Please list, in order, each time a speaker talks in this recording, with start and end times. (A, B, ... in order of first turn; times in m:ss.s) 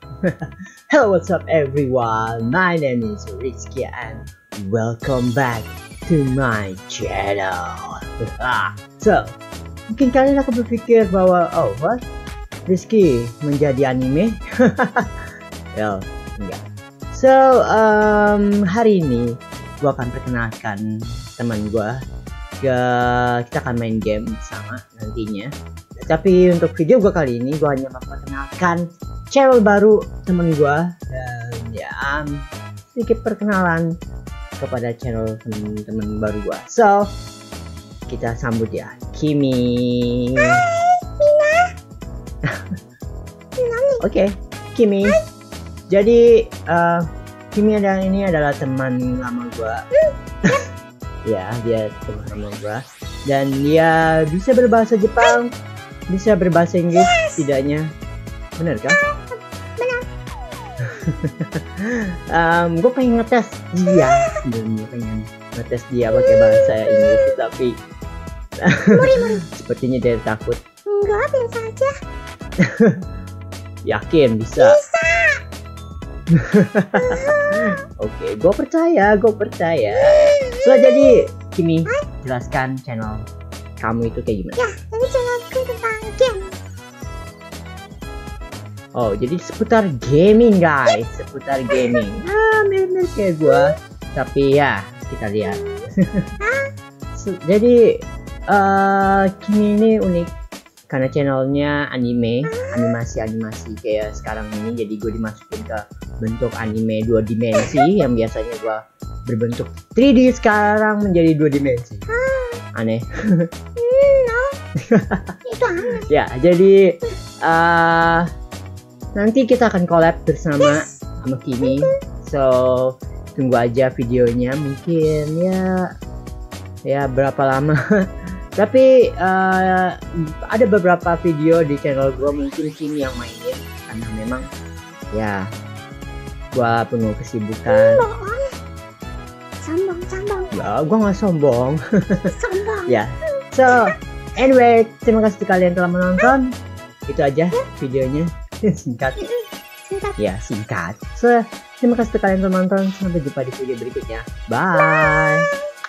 0:00.2-0:09.4 A
0:09.9-0:12.0 A
0:12.7-0:15.1 A
0:15.7-0:16.6 A
0:17.1-0:22.0 A
0:22.6-0:32.4 A
0:33.0-0:33.9 A
0:34.6-0:37.1 A
0:38.1-0:40.6 A
0:40.4-0:41.7 B
0:43.6-0:44.0 B
0:44.0-0:45.2 A
0:45.9-0:49.8 A
0:51.2-0:55.5 A
0:56.1-0:57.9 A
0:58.6-0:59.0 A
0:59.1-1:00.0 B
1:01.0-1:07.8 A
1:08.6-1:10.6 A
1:08.9-1:09.4 B
1:10.9-1:12.0 B
1:12.6-1:13.0 A
1:13.8-1:14.8 A
1:14.6-1:15.4 B
1:16.3-1:23.2 A
1:17.0-1:17.7 B
1:23.8-1:24.6 A
1:24.6-1:26.6 B
1:28.9-1:36.2 A
1:36.4-1:36.7 B
1:37.1-1:40.3 A
1:40.9-1:52.1 A
1:52.2-1:52.6 B
1:52.8-1:53.1 A
1:53.8-1:54.6 B
1:54.9-1:55.3 A
1:55.5-1:56.1 B
1:56.0-1:58.3 A
1:59.2-2:05.7 A
2:06.9-2:07.8 A
2:08.6-2:14.4 A
2:15.1-2:15.5 A
2:16.5-2:18.0 A
2:17.7-2:18.5 B
2:19.6-2:20.5 B
2:20.5-2:22.3 A
2:22.3-2:23.0 B
2:22.8-2:26.5 A
2:27.1-2:29.3 A
2:29.9-2:30.1 B
2:30.2-2:35.5 A
2:34.9-2:35.4 B